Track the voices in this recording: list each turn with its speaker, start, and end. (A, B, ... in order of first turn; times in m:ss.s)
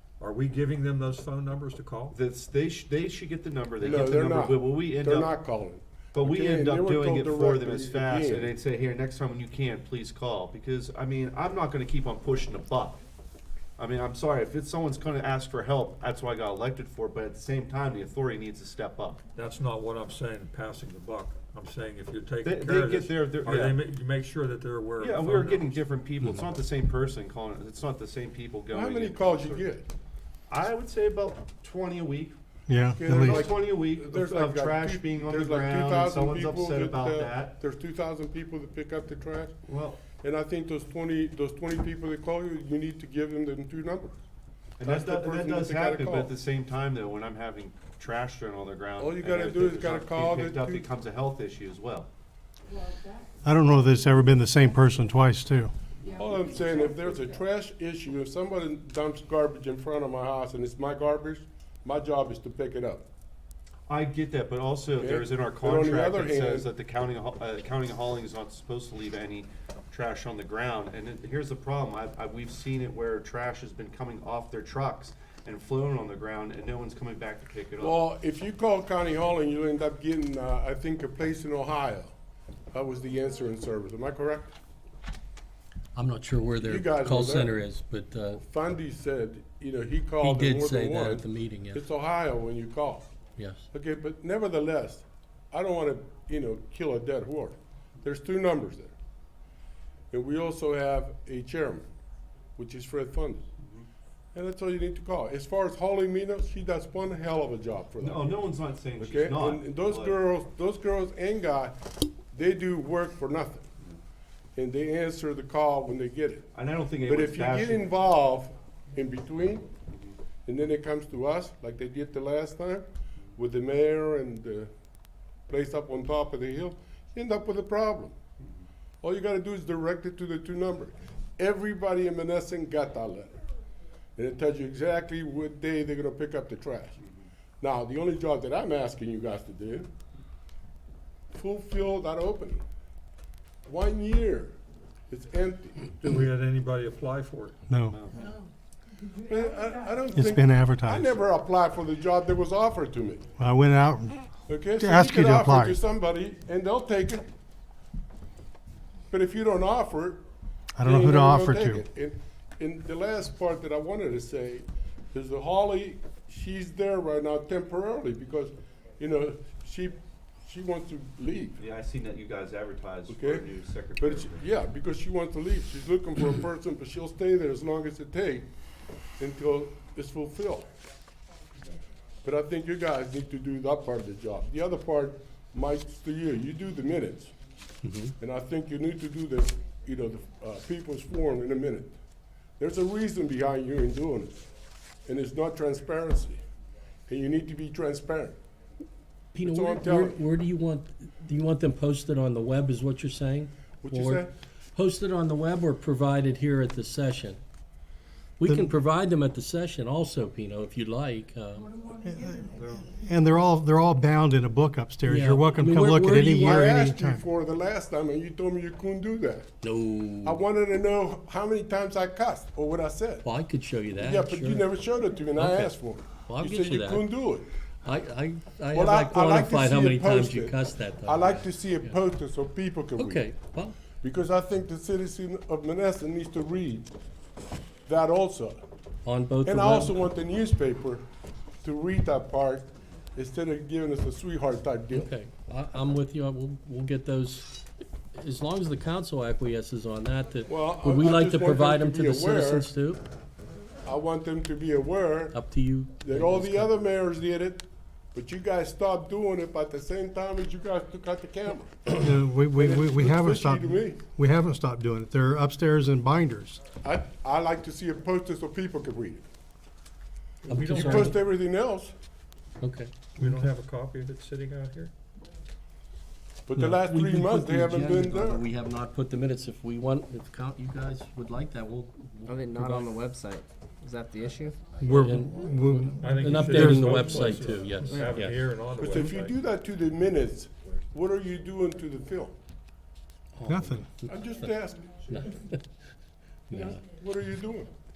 0:00.2-0:02.2 A
0:02.1-0:05.3 B
0:03.8-0:08.6 C
0:06.1-0:13.0 B
0:13.8-0:19.2 B
0:19.4-0:25.8 A
0:22.4-0:23.8 B
0:25.0-0:29.7 B
0:28.7-0:29.9 C
0:30.5-0:32.4 B
0:32.7-0:33.5 D
0:33.0-0:39.6 C
0:33.1-0:37.6 B
0:39.7-0:40.0 B
0:40.2-0:44.2 C
0:44.8-0:52.1 B
0:44.8-0:46.4 C
0:49.0-0:50.9 C
0:53.4-0:55.7 D
0:56.1-1:03.1 C
1:03.9-1:18.0 B
1:05.0-1:06.7 C
1:17.8-1:22.1 C
1:22.7-1:24.6 C
1:26.0-1:28.4 E
1:26.6-1:27.6 C
1:28.3-1:33.1 C
1:30.2-1:31.9 E
1:33.4-1:33.7 E
1:33.7-1:39.0 C
1:40.1-1:41.9 C
1:42.6-1:43.5 C
1:44.3-1:48.4 C
1:48.0-1:50.2 B
1:49.0-1:53.7 C
1:54.6-1:56.5 C
1:56.5-1:57.9 B
1:57.0-1:59.7 C
2:00.5-2:04.7 C
2:05.5-2:08.2 C
2:09.0-2:13.4 C
2:14.2-2:17.0 C
2:17.6-2:19.9 C
2:21.3-2:22.6 C
2:23.7-2:24.6 C
2:25.1-2:25.9 C
2:26.0-2:27.6 A
2:27.7-2:28.0 D
2:27.9-2:28.2 B
2:29.2-2:33.3 C
2:30.1-2:31.2 D
2:33.4-2:35.8 D
2:34.5-2:37.3 C
2:39.1-2:40.2 C
2:40.8-2:41.8 D
2:40.8-2:51.6 C
2:51.6-2:54.5 B
2:53.1-2:58.5 C
2:59.2-3:00.7 C
3:02.2-3:07.3 C
3:07.8-3:08.2 E
3:08.2-3:12.0 C
3:12.6-3:14.4 C
3:15.1-3:16.4 C
3:17.1-3:18.4 C
3:19.3-3:27.4 E
3:19.4-3:20.2 C
3:23.8-3:24.3 C
3:28.4-3:31.8 E
3:28.5-3:28.7 D
3:32.0-3:32.5 D
3:32.6-3:32.8 B
3:33.0-3:37.2 D
3:35.0-3:36.8 E
3:36.4-3:39.5 C
3:39.6-3:40.4 E
3:40.2-3:43.3 C
3:43.2-3:44.8 E
3:44.0-3:47.5 C
3:45.3-3:47.2 E
3:47.8-3:52.0 E
3:48.7-3:53.3 C
3:53.0-3:53.8 E
3:54.0-3:56.9 C
3:57.9-3:58.6 C
3:59.0-4:00.0 E
3:59.4-4:01.0 C
4:01.6-4:05.2 C
4:04.9-4:13.0 E
4:10.5-4:12.7 C
4:13.8-4:15.4 C
4:15.3-4:16.8 E
4:16.0-4:24.0 C
4:22.0-4:26.6 D
4:26.8-4:29.3 C
4:30.5-4:31.2 A
4:30.5-4:31.2 E
4:30.8-4:32.0 C
4:32.6-4:32.9 E
4:33.2-4:34.9 A
4:33.2-4:33.4 D
4:36.5-4:38.5 C
4:36.6-4:43.0 E
4:42.3-4:44.6 F
4:44.8-4:47.0 D
4:44.8-4:48.4 E
4:46.0-4:49.4 A
4:47.9-4:48.2 F
4:48.8-4:52.4 C
4:53.4-4:54.6 E
4:53.5-4:53.9 D
4:54.0-4:55.0 C
4:55.1-4:55.6 E
4:56.5-4:56.8 E
4:56.5-4:57.7 C